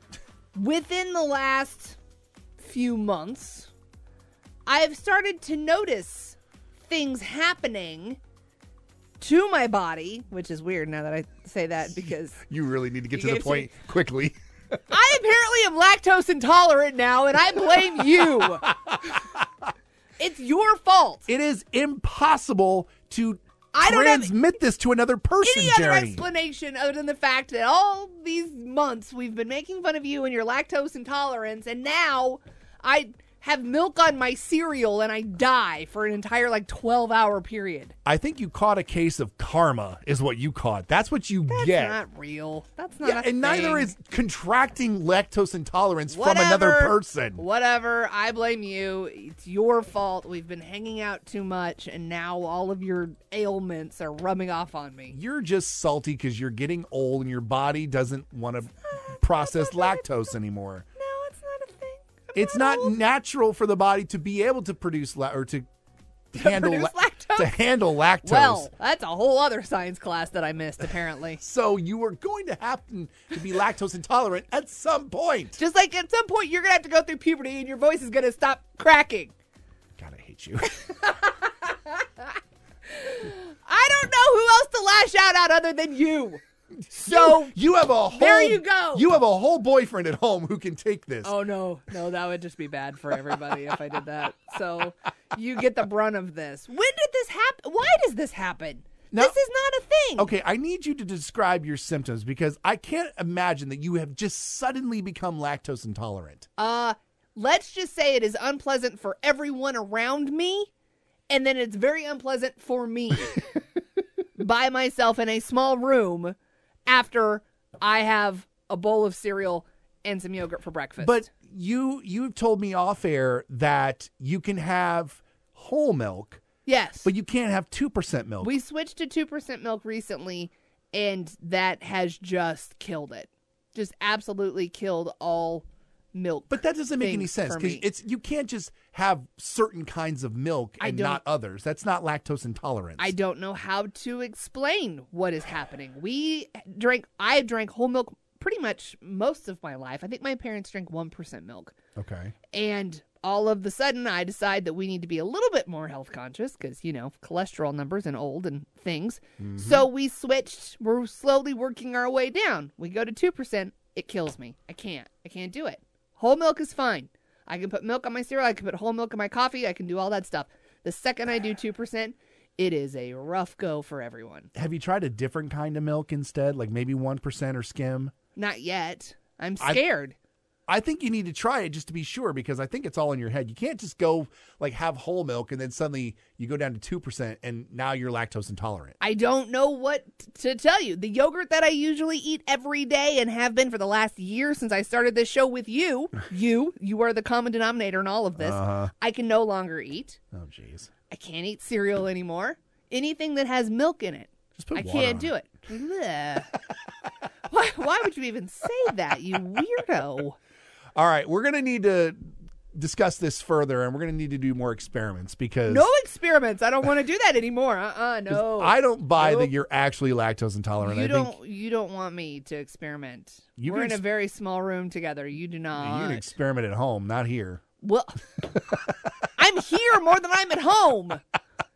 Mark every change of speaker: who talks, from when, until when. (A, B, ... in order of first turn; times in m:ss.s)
0:00.5-0:02.0 A
0:02.6-0:03.7 A
0:04.6-0:08.2 A
0:09.2-0:12.4 A
0:12.4-0:14.3 B
0:13.1-0:13.7 A
0:14.9-0:18.7 A
0:20.2-0:21.3 A
0:21.3-0:26.2 B
0:23.7-0:24.3 A
0:25.4-0:37.9 A
0:38.0-0:42.0 B
0:41.5-0:43.9 A
0:43.0-0:47.4 B
0:46.1-0:55.2 A
0:55.1-1:00.8 B
0:58.9-1:00.1 A
1:01.0-1:03.0 A
1:02.3-1:05.6 B
1:06.3-1:08.7 B
1:06.3-1:07.5 A
1:08.2-1:11.4 A
1:11.4-1:15.6 B
1:15.6-1:19.3 A
1:20.0-1:20.7 B
1:20.8-1:22.3 A
1:22.9-1:27.6 A
1:26.9-1:31.3 B
1:28.1-1:29.1 A
1:31.2-1:40.3 A
1:40.2-1:46.5 B
1:46.6-1:50.7 A
1:51.3-1:53.5 A
1:54.4-1:56.4 A
1:56.9-2:01.3 A
2:01.0-2:06.4 B
2:06.6-2:07.1 A
2:07.0-2:08.5 B
2:08.4-2:17.9 A
2:16.5-2:23.1 B
2:20.8-2:21.2 A
2:23.0-2:31.8 A
2:32.0-2:32.3 B
2:32.5-2:54.5 A
2:39.4-2:39.8 B
2:54.5-2:58.1 B
2:58.4-3:00.2 A
3:00.7-3:09.0 B
3:09.0-3:20.2 A
3:18.4-3:18.9 B
3:20.3-3:20.9 B
3:21.1-3:26.5 A
3:24.6-3:25.3 B
3:27.5-3:30.4 A
3:30.9-3:35.9 B
3:35.7-3:39.5 A
3:38.3-3:41.4 B
3:40.8-3:46.3 A
3:43.6-3:44.0 B
3:45.8-3:47.6 B
3:47.8-3:48.2 A
3:49.4-3:51.2 A